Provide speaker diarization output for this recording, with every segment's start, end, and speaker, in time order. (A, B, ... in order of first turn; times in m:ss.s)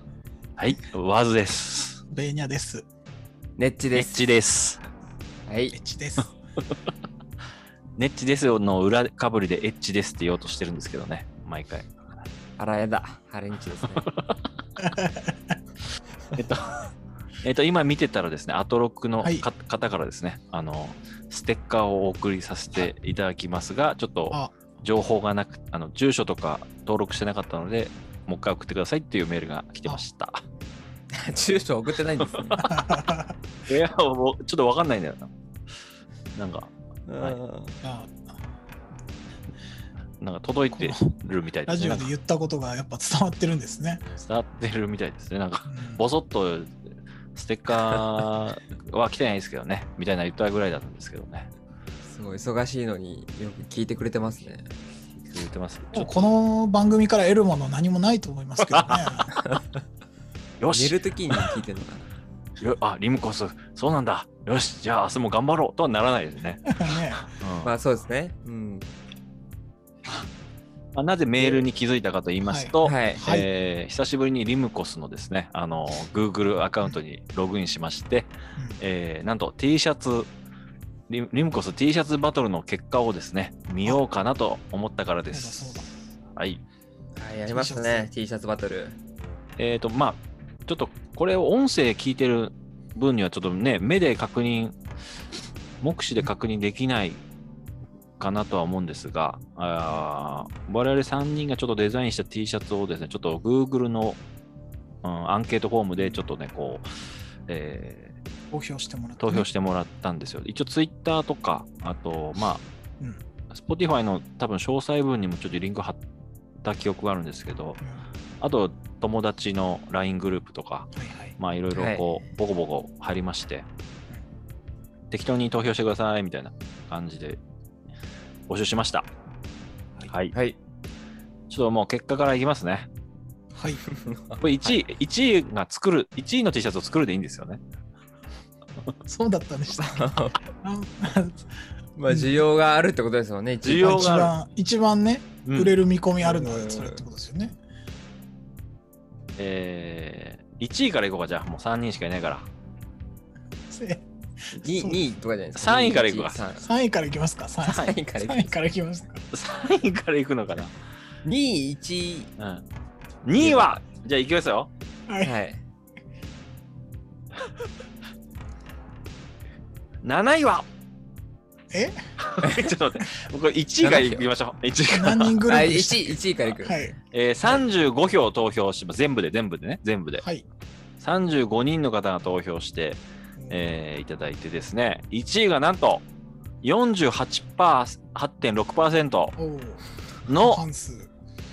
0:00.6-0:02.0 A
0:02.1-0:02.8 B
0:03.6-0:04.3 C
0:03.9-0:04.8 A
0:05.4-0:05.8 C
0:05.7-0:06.3 B
0:08.0-0:11.9 A
0:12.6-0:14.1 C
0:14.1-0:14.3 A
0:14.8-0:15.5 B
0:16.4-0:16.8 A
0:17.4-0:30.4 A
0:19.2-0:19.4 B
0:24.3-0:24.6 B
0:31.1-0:32.6 C
0:32.2-0:32.7 A
0:32.6-0:33.4 B
0:33.6-0:35.3 A
0:36.3-0:37.4 A
0:37.1-0:37.8 C
0:37.8-0:38.1 B
0:40.2-0:42.1 A
0:40.7-0:41.1 B
0:41.7-0:44.1 B
0:44.2-0:51.5 A
0:45.7-0:46.0 B
0:52.0-0:54.7 C
0:55.2-0:56.1 A
0:55.9-0:59.3 B
0:58.6-0:59.1 A
0:59.4-0:59.6 C
1:00.6-1:01.0 A
1:00.7-1:02.1 C
1:02.6-1:06.8 A
1:06.7-1:07.3 B
1:07.3-1:07.7 A
1:07.6-1:08.9 C
1:10.9-1:20.3 A
1:12.4-1:13.5 B
1:12.8-1:13.2 C
1:18.6-1:18.8 B
1:21.1-1:26.6 A
1:25.3-1:25.9 B
1:27.2-1:29.0 C
1:27.5-1:28.1 B
1:29.6-1:34.8 A
1:35.8-1:37.2 A
1:38.2-1:44.2 A
1:45.0-1:46.8 A
1:47.5-1:48.2 A
1:48.5-1:49.5 B
1:49.2-1:52.6 A
1:53.5-1:56.0 A
1:56.6-1:57.8 A
1:58.4-2:03.7 A
2:01.0-2:01.4 B
2:01.7-2:02.3 C
2:05.1-2:07.4 A
2:08.5-2:09.1 A
2:10.1-2:10.3 A
2:11.5-2:12.9 A
2:13.5-2:13.8 B
2:13.9-2:14.8 C
2:14.4-2:17.6 A
2:19.0-2:21.4 B
2:19.8-2:20.4 C
2:22.0-2:24.2 C
2:22.1-2:22.4 B
2:23.6-2:24.3 A
2:23.6-2:27.6 B
2:25.4-2:25.7 A
2:26.2-2:27.0 C
2:29.4-2:32.5 A
2:33.7-2:35.0 B
2:34.5-2:36.6 C
2:35.5-2:36.4 A
2:36.6-2:39.2 B
2:37.6-2:38.6 C
2:39.3-2:40.7 A
2:41.2-2:42.3 C
2:42.4-2:42.6 A
2:43.2-2:44.7 A
2:43.4-2:43.8 C
2:45.2-2:45.6 C
2:50.0-2:50.6 A
2:51.7-2:52.1 B
2:52.2-2:55.4 A
2:52.4-2:52.7 C
2:53.8-2:54.3 C
2:54.9-2:57.0 B
2:55.5-2:56.8 C
2:57.1-3:00.2 A
3:00.2-3:00.4 B
3:01.0-3:06.0 A
3:03.4-3:03.7 B
3:06.6-3:09.3 A
3:09.4-3:11.1 B
3:10.3-3:10.6 A